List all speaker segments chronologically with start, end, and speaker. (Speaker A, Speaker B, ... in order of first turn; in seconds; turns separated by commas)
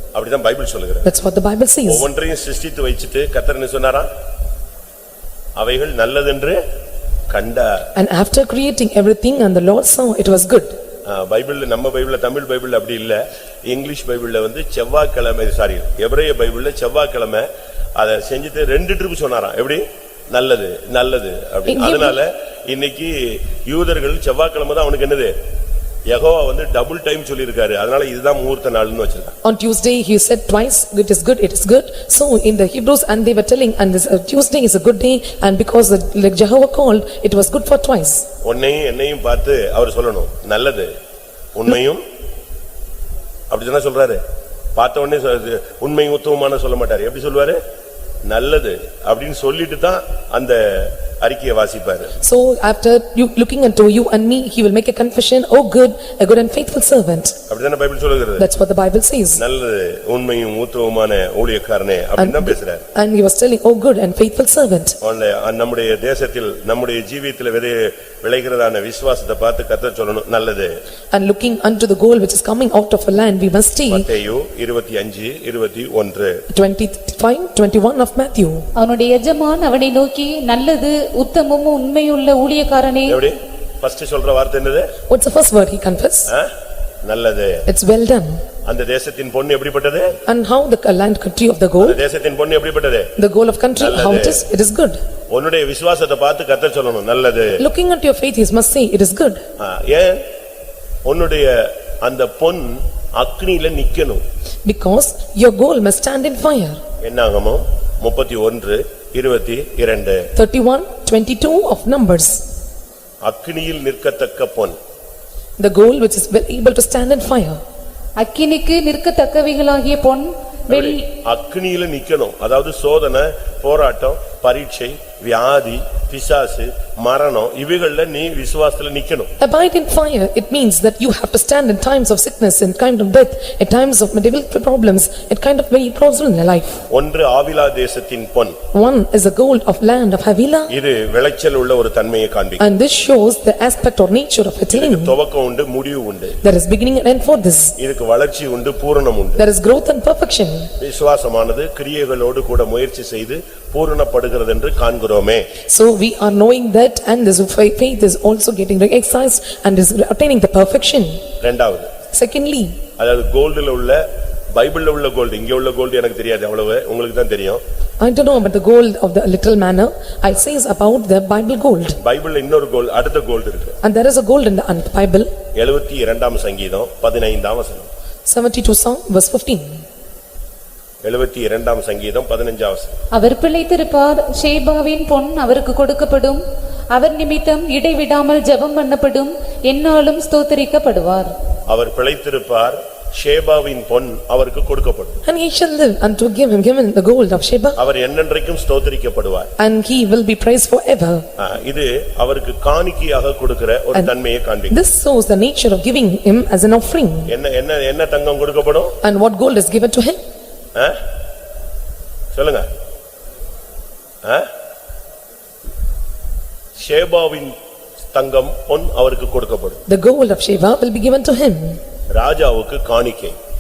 Speaker A: 0.1-1.1, Speaker B: 1.1-2.1, Speaker A: 1.9-4.1, Speaker A: 5.6-6.6, Speaker A: 7.3-7.9, Speaker B: 8.0-10.8, Speaker A: 11.1-17.5, Speaker A: 18.0-25.3, Speaker B: 21.7-22.2, Speaker A: 26.1-29.3, Speaker B: 29.4-38.3, Speaker A: 38.4-40.9, Speaker A: 41.5-42.0, Speaker A: 43.5-44.2, Speaker A: 44.8-47.6, Speaker A: 48.2-52.1, Speaker B: 52.2-57.4, Speaker A: 57.5-58.5, Speaker B: 58.4-59.4, Speaker A: 59.4-62.8, Speaker B: 62.2-65.0, Speaker A: 65.0-70.8, Speaker B: 71.1-74.1, Speaker A: 73.9-76.4, Speaker B: 76.5-78.7, Speaker C: 78.8-83.2, Speaker A: 83.1-84.9, Speaker B: 85.1-86.3, Speaker A: 87.0-87.7, Speaker B: 87.7-88.4, Speaker A: 88.7-90.2, Speaker B: 90.3-92.0, Speaker A: 91.8-93.1, Speaker B: 93.2-95.0, Speaker A: 93.8-94.5, Speaker A: 95.3-97.6, Speaker B: 97.6-99.4, Speaker A: 99.6-100.2, Speaker A: 101.0-104.2, Speaker B: 104.7-106.8, Speaker A: 107.0-110.3, Speaker B: 110.4-112.4, Speaker A: 113.2-114.8, Speaker B: 115.6-117.6, Speaker C: 118.2-121.1, Speaker A: 120.7-129.3, Speaker B: 129.4-136.8, Speaker A: 136.9-138.6, Speaker B: 138.7-140.7, Speaker A: 140.7-142.6, Speaker B: 142.6-145.2, Speaker A: 144.7-146.4, Speaker B: 146.4-147.8, Speaker A: 147.8-149.4, Speaker B: 149.4-150.7, Speaker A: 150.8-155.5, Speaker B: 155.7-161.2, Speaker A: 161.4-161.9, Speaker B: 162.1-162.8, Speaker A: 163.0-164.0, Speaker A: 164.5-167.6, Speaker B: 168.0-172.0, Speaker A: 172.0-173.8, Speaker B: 173.8-175.3, Speaker A: 175.6-177.9, Speaker B: 178.3-179.8, Speaker A: 181.0-182.9, Speaker C: 183.1-191.3, Speaker A: 191.7-195.2, Speaker B: 195.3-197.8, Speaker A: 197.8-199.5, Speaker B: 199.6-201.2, Speaker A: 201.4-204.8, Speaker B: 204.7-207.3, Speaker A: 207.3-209.0, Speaker B: 209.0-210.2, Speaker A: 212.3-212.7, Speaker A: 216.8-217.6, Speaker A: 218.1-219.8, Speaker B: 219.9-221.8, Speaker A: 222.1-223.4